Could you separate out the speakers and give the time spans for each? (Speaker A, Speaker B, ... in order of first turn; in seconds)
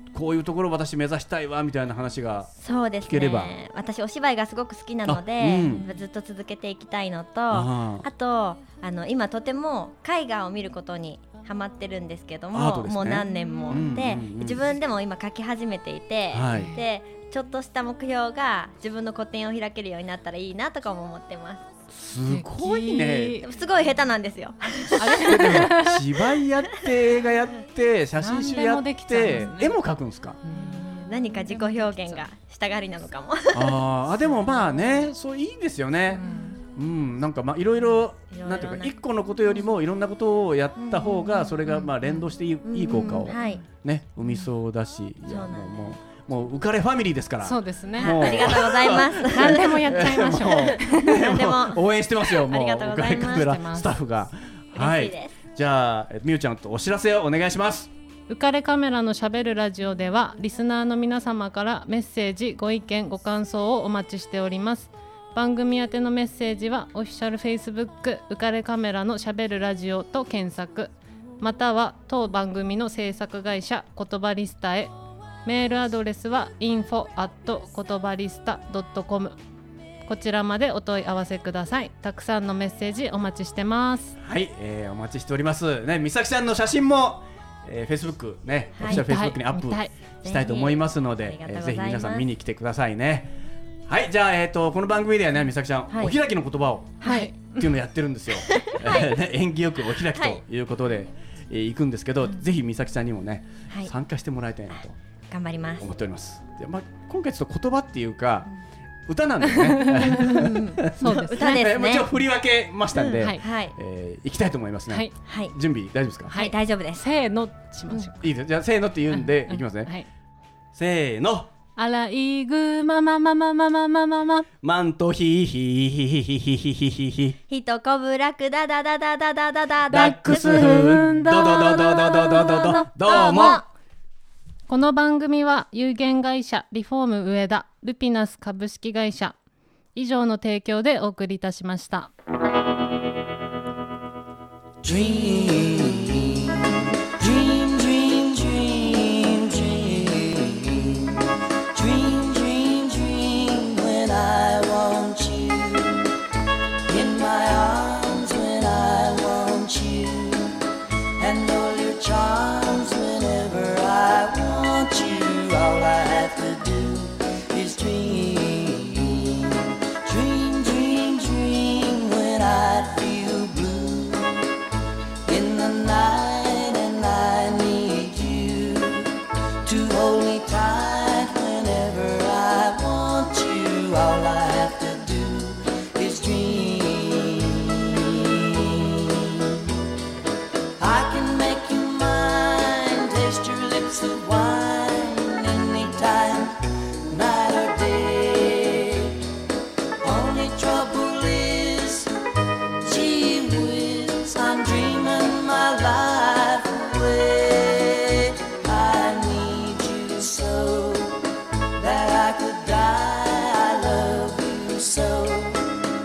Speaker A: 0.1-2.5, 3.0-3.5, 5.0-5.8, 7.5-8.1, 12.5-14.7, 16.3-16.7, 21.9-23.4, 25.1-30.4, 33.5-57.9, 84.2-93.3, 93.9-105.0, 105.8-108.5, 109.1-116.3, 118.2-119.9, 120.7-121.5, 124.6-127.4, 129.9-133.6
Speaker B: 2.6-21.6, 23.4-25.5, 30.5-33.8, 38.3-38.9, 40.8-41.6, 42.6-43.6, 45.3-45.9, 48.0-53.5, 54.7-55.3, 88.8-89.0, 90.2-92.2, 95.9-96.2, 97.0-97.3, 98.3-99.1, 100.0-100.4, 105.3-105.8, 110.1-112.1, 112.9-113.7, 115.2-115.5, 116.3-117.0, 127.5-133.7
Speaker C: 5.6-5.9, 13.3-13.9, 16.5-16.8, 22.3-23.5, 25.0-26.1, 28.2-29.7, 30.4-32.2, 36.1-36.6, 41.7-41.9, 43.1-43.6, 47.4-48.6, 49.2-51.3, 53.0-53.9, 58.3-74.9, 75.4-79.3, 80.0-84.1, 88.9-89.9, 97.0-97.7, 109.5-110.4, 111.0-111.6, 116.3-118.2, 119.1-120.1, 121.8-124.5, 130.4-131.6, 134.7-139.3, 139.9-142.1
Speaker D: 144.8-156.2, 156.8-160.6, 161.2-174.6, 175.3-189.6, 190.8-199.2, 200.0-202.1, 202.8-211.2, 211.8-215.9